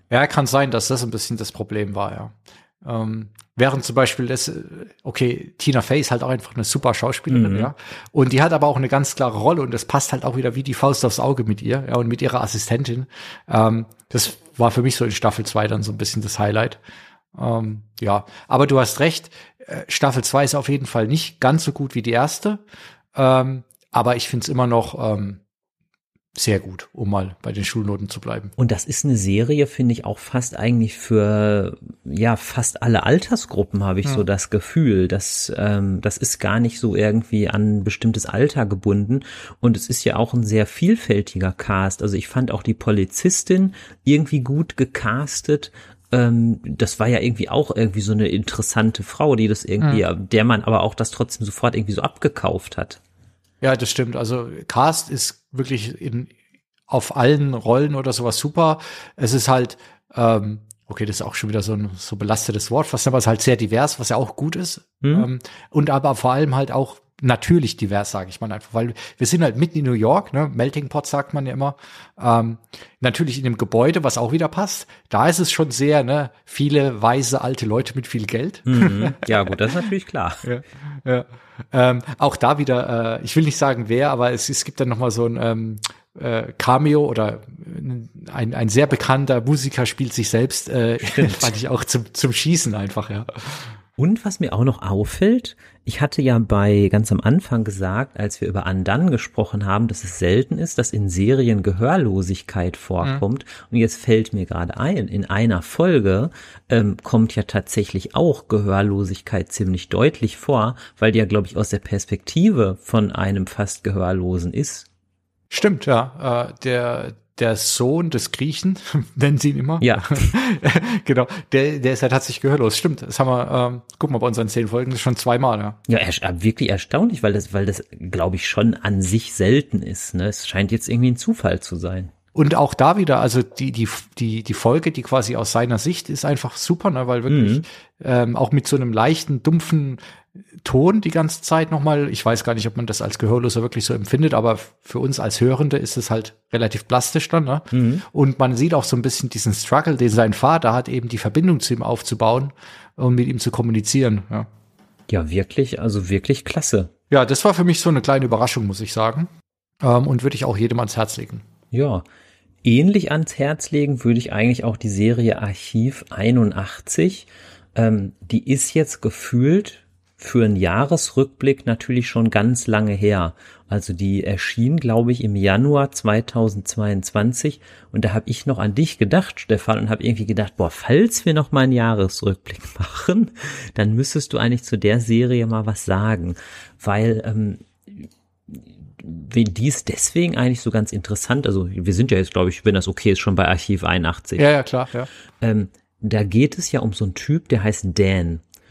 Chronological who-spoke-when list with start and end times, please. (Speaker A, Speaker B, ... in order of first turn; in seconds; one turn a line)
Speaker A: 0.1-16.8
Speaker B: 7.3-7.7
Speaker A: 17.3-22.6
Speaker A: 23.1-25.4
Speaker A: 26.3-28.5
Speaker B: 28.6-53.0
Speaker A: 53.6-56.3
Speaker A: 56.9-79.8
Speaker B: 65.0-65.3
Speaker B: 78.7-80.5
Speaker A: 80.4-93.7
Speaker B: 91.0-91.5
Speaker B: 94.0-114.9
Speaker A: 115.5-125.8
Speaker B: 119.8-120.3
Speaker B: 125.9-132.1
Speaker A: 132.3-140.0
Speaker B: 137.3-137.6
Speaker A: 140.6-154.5
Speaker B: 147.7-148.1
Speaker B: 155.1-156.9
Speaker A: 157.1-159.3
Speaker A: 159.8-161.4
Speaker B: 161.7-162.1
Speaker B: 162.6-194.5
Speaker A: 194.4-195.1
Speaker B: 195.4-198.4